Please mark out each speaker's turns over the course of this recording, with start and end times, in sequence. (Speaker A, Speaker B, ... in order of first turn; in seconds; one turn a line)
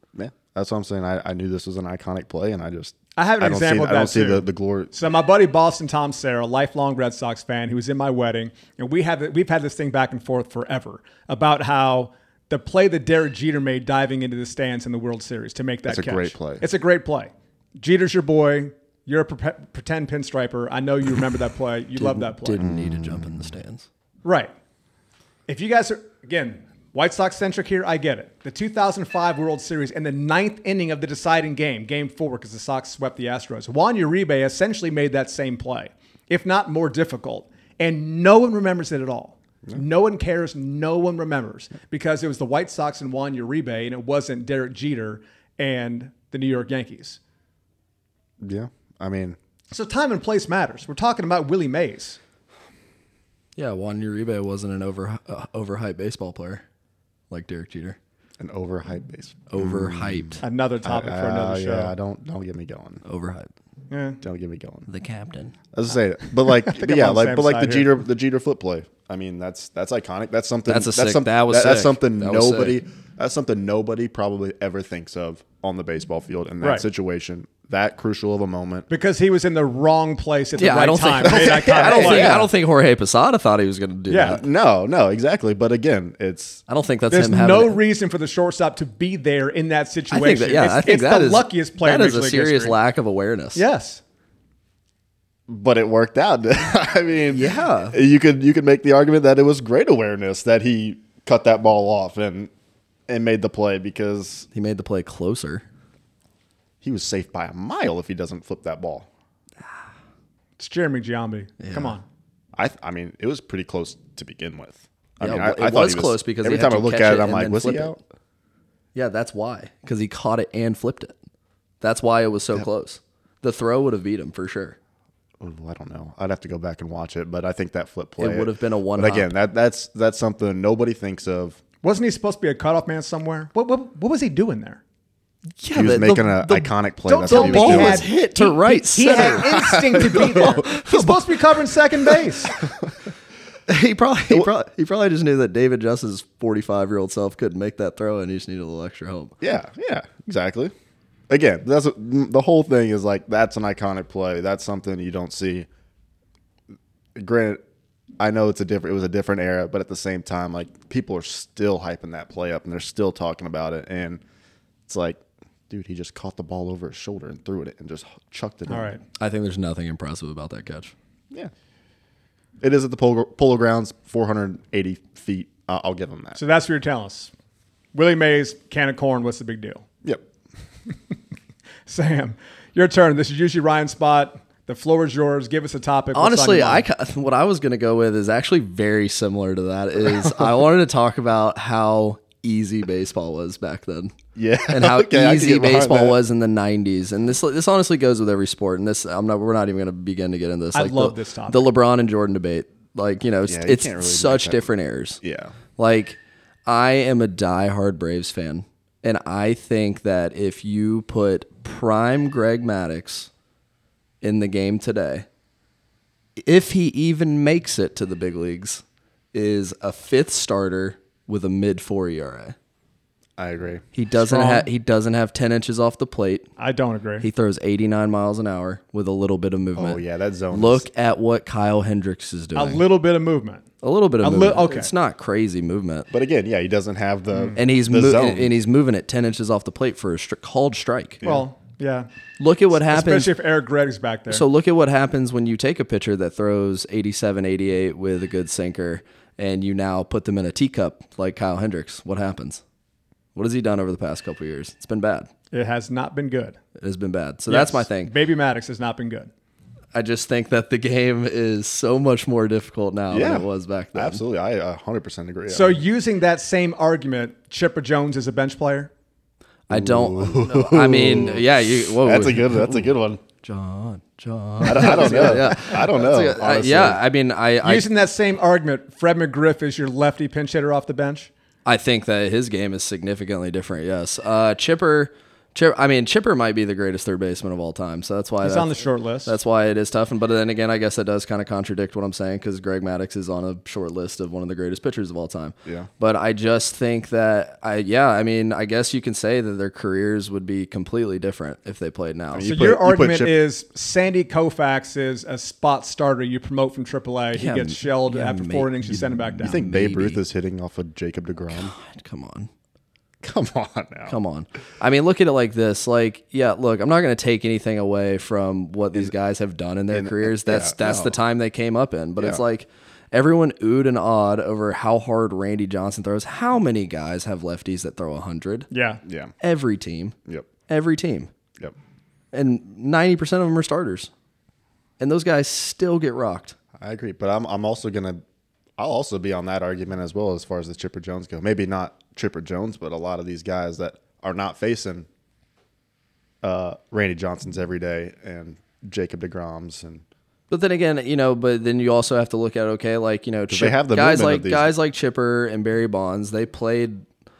Speaker A: 0.1-5.0
Speaker B: 3.2-22.6
Speaker A: 15.9-16.6
Speaker C: 21.9-23.9
Speaker A: 22.6-23.6
Speaker B: 24.2-24.5
Speaker B: 25.5-47.2
Speaker A: 48.4-49.4
Speaker B: 49.7-52.2
Speaker C: 53.5-56.6
Speaker C: 57.3-58.0
Speaker A: 58.4-63.0
Speaker C: 59.5-60.4
Speaker B: 60.4-61.9
Speaker C: 63.0-63.5
Speaker B: 63.9-64.2
Speaker A: 64.2-64.9
Speaker C: 64.9-65.5
Speaker A: 65.7-78.9
Speaker B: 66.4-67.9
Speaker C: 70.7-72.8
Speaker B: 76.6-76.9
Speaker B: 78.9-82.5
Speaker C: 80.6-84.5
Speaker A: 81.4-82.5
Speaker B: 84.1-84.4
Speaker A: 84.2-86.6
Speaker C: 86.7-87.8
Speaker B: 87.1-92.8
Speaker C: 90.1-93.6
Speaker B: 93.5-94.0
Speaker A: 95.5-102.5
Speaker C: 97.3-98.0
Speaker A: 103.1-104.5
Speaker C: 104.5-105.6
Speaker A: 106.8-109.1
Speaker B: 110.6-112.0
Speaker C: 111.6-112.0
Speaker A: 112.5-118.0
Speaker C: 115.2-118.0
Speaker C: 119.0-121.2
Speaker C: 121.8-124.8
Speaker A: 125.4-131.6
Speaker C: 128.2-129.3
Speaker B: 131.8-134.8
Speaker C: 135.6-136.7
Speaker A: 135.7-138.1
Speaker B: 137.1-142.5
Speaker C: 137.2-141.2
Speaker A: 139.1-140.7
Speaker A: 142.6-142.9
Speaker C: 143.7-149.3
Speaker A: 149.4-150.7
Speaker A: 151.3-155.7
Speaker A: 157.2-157.6
Speaker A: 158.2-164.2
Speaker A: 164.9-168.9
Speaker B: 168.7-169.0
Speaker C: 169.2-170.9
Speaker A: 172.6-176.4
Speaker B: 176.4-177.3
Speaker B: 177.9-179.8
Speaker B: 181.9-186.9
Speaker C: 186.1-194.1
Speaker A: 194.4-196.2
Speaker C: 194.7-205.2
Speaker B: 200.7-201.7
Speaker A: 203.4-205.5
Speaker C: 205.8-213.3
Speaker C: 214.2-215.3
Speaker C: 216.4-222.6
Speaker A: 223.4-223.8
Speaker C: 223.9-226.5
Speaker B: 224.1-224.7
Speaker B: 226.6-227.3
Speaker C: 227.2-232.8
Speaker A: 229.8-230.9
Speaker B: 232.6-233.7
Speaker C: 233.8-236.1
Speaker B: 234.2-234.9
Speaker A: 236.1-238.5
Speaker C: 237.6-241.2
Speaker A: 241.2-241.5
Speaker B: 241.2-242.1
Speaker C: 242.4-243.3
Speaker B: 242.7-244.4
Speaker C: 244.3-252.6
Speaker C: 253.3-255.3
Speaker B: 255.5-256.6
Speaker C: 256.8-258.1
Speaker B: 257.5-259.3
Speaker C: 259.9-264.2
Speaker A: 263.1-265.8
Speaker B: 265.5-268.9
Speaker C: 269.7-272.9
Speaker A: 269.7-273.2
Speaker C: 273.4-277.9
Speaker A: 274.6-277.0
Speaker B: 274.7-275.5
Speaker B: 277.6-281.3
Speaker C: 281.7-288.7
Speaker B: 288.4-289.3
Speaker C: 289.3-302.5
Speaker A: 302.3-303.4
Speaker B: 302.4-309.6
Speaker C: 307.3-310.2
Speaker A: 309.4-311.7
Speaker C: 311.5-312.5
Speaker A: 313.2-314.1
Speaker C: 314.1-328.7
Speaker A: 319.9-321.2
Speaker B: 328.7-329.0
Speaker A: 329.0-329.3
Speaker C: 329.4-330.2
Speaker C: 330.7-331.3
Speaker C: 332.3-334.1
Speaker C: 335.0-336.6
Speaker A: 336.8-338.2
Speaker A: 338.8-345.1
Speaker A: 346.4-350.0
Speaker C: 350.5-357.1
Speaker A: 353.5-354.7